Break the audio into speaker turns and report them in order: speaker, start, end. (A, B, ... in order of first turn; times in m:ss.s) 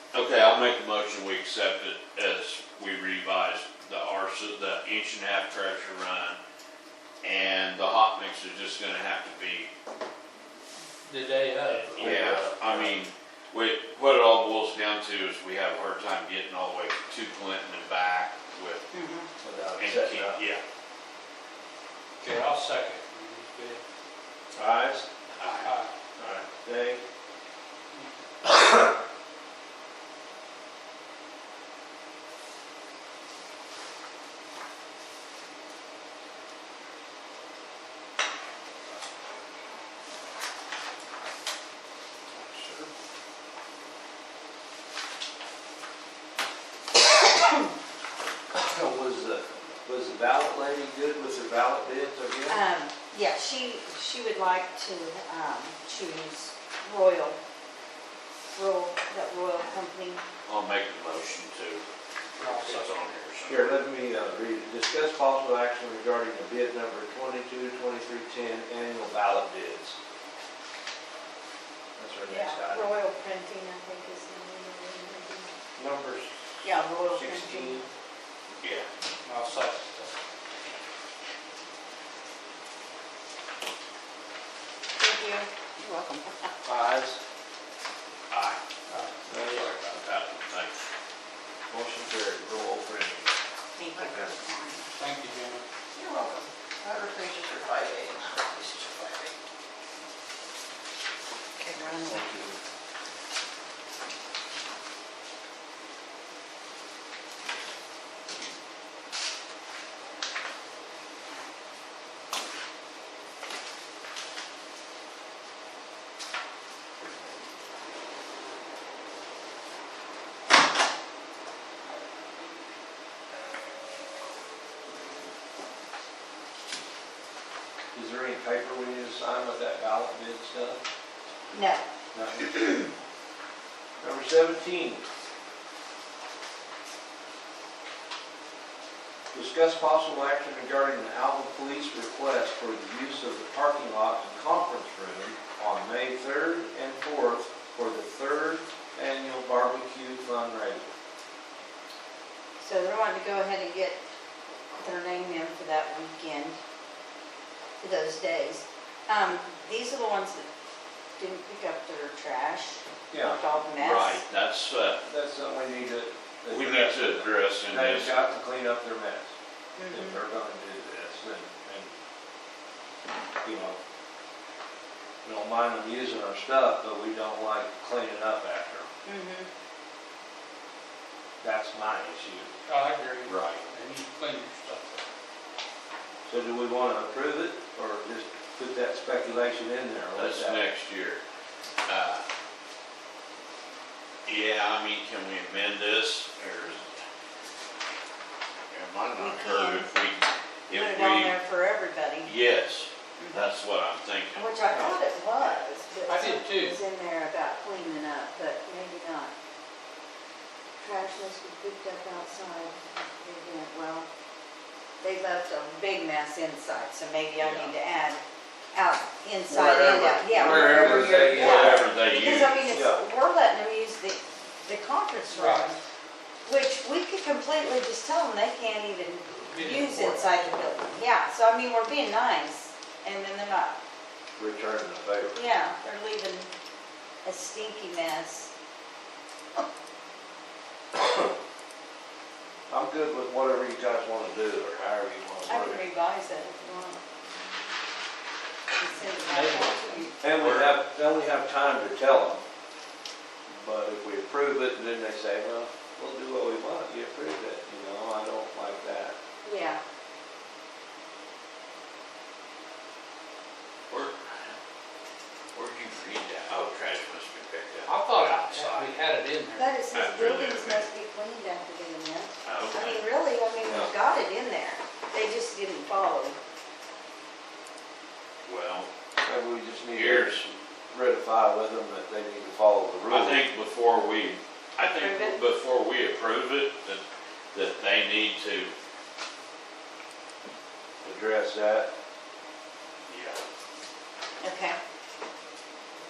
0:00.1-0:06.4 A
0:07.2-0:09.7 A
0:11.1-0:12.3 B
0:11.7-0:18.9 A
0:11.9-0:13.0 C
0:18.9-0:19.3 D
0:19.4-0:20.4 C
0:19.8-0:20.6 A
0:22.2-0:23.8 B
0:24.6-0:25.1 C
0:25.4-0:25.8 A
0:25.6-0:25.9 B
0:26.2-0:27.0 C
0:42.5-0:42.9 C
0:48.5-0:52.6 C
0:52.5-0:57.4 D
0:58.6-1:00.2 D
1:00.4-1:01.9 A
1:02.4-1:03.7 A
1:02.4-1:03.0 B
1:03.5-1:10.0 C
1:12.0-1:13.0 C
1:12.3-1:15.5 D
1:15.8-1:17.9 C
1:16.6-1:17.8 D
1:18.6-1:18.9 A
1:19.2-1:20.1 B
1:25.0-1:25.5 D
1:25.8-1:26.3 E
1:26.6-1:27.2 C
1:28.3-1:28.6 A
1:28.9-1:29.1 B
1:29.3-1:29.7 C
1:29.4-1:30.8 A
1:31.7-1:33.3 C
1:33.8-1:34.9 D
1:35.0-1:35.6 B
1:36.0-1:39.3 E
1:41.6-1:42.3 D
1:42.1-1:42.6 C
2:07.9-2:10.8 C
2:11.5-2:11.8 D
2:12.1-2:12.7 C
2:14.0-2:15.0 C
2:19.3-2:30.9 C
2:32.6-2:34.0 D
2:34.7-2:36.6 D
2:37.8-2:40.5 D
2:41.2-2:44.2 D
2:43.1-2:43.4 C
2:43.8-2:45.1 A
2:45.1-2:49.3 C
2:46.5-2:48.3 A
2:49.8-2:50.2 D
2:49.9-2:51.9 C
2:53.4-2:53.8 C
2:55.2-2:58.9 C
2:59.0-2:59.5 D
3:01.4-3:02.5 C
3:02.7-3:05.0 B
3:03.2-3:03.6 A
3:06.3-3:10.6 C
3:10.1-3:11.2 A
3:11.8-3:12.3 A
3:14.3-3:16.9 A
3:18.7-3:21.4 A
3:19.2-3:19.9 D
3:20.7-3:22.3 D
3:22.2-3:25.6 A
3:23.2-3:23.5 D
3:24.3-3:29.3 D
3:26.1-3:26.8 B
3:30.8-3:34.1 D
3:35.0-3:38.2 D
3:38.7-3:45.8 D
3:39.5-3:41.9 C
3:40.2-3:42.7 A
3:41.0-3:41.4 B
3:42.7-3:43.0 C
3:45.3-3:45.7 B
3:46.4-3:53.8 D
3:49.5-3:50.4 B
3:54.4-3:55.4 C
3:55.3-3:56.5 D
3:57.2-3:58.5 D
4:01.0-4:01.3 C
4:02.7-4:05.8 C
4:05.5-4:07.0 D
4:08.7-4:10.1 D
4:09.1-4:10.2 B
4:10.2-4:12.4 C
4:10.3-4:10.8 A
4:13.5-4:19.2 C
4:19.4-4:19.8 D
4:23.9-4:24.6 A
4:25.5-4:29.0 A
4:27.9-4:29.8 B
4:29.6-4:36.4 D
4:29.9-4:30.9 A
4:32.4-4:33.0 A
4:33.6-4:33.9 C
4:38.4-4:38.9 A
4:39.2-4:43.4 C
4:39.9-4:40.4 A
4:43.1-4:47.0 A
4:44.8-4:45.4 D
4:47.5-4:48.7 A
4:51.0-4:51.9 C
4:53.1-4:53.4 A
4:54.4-4:54.8 D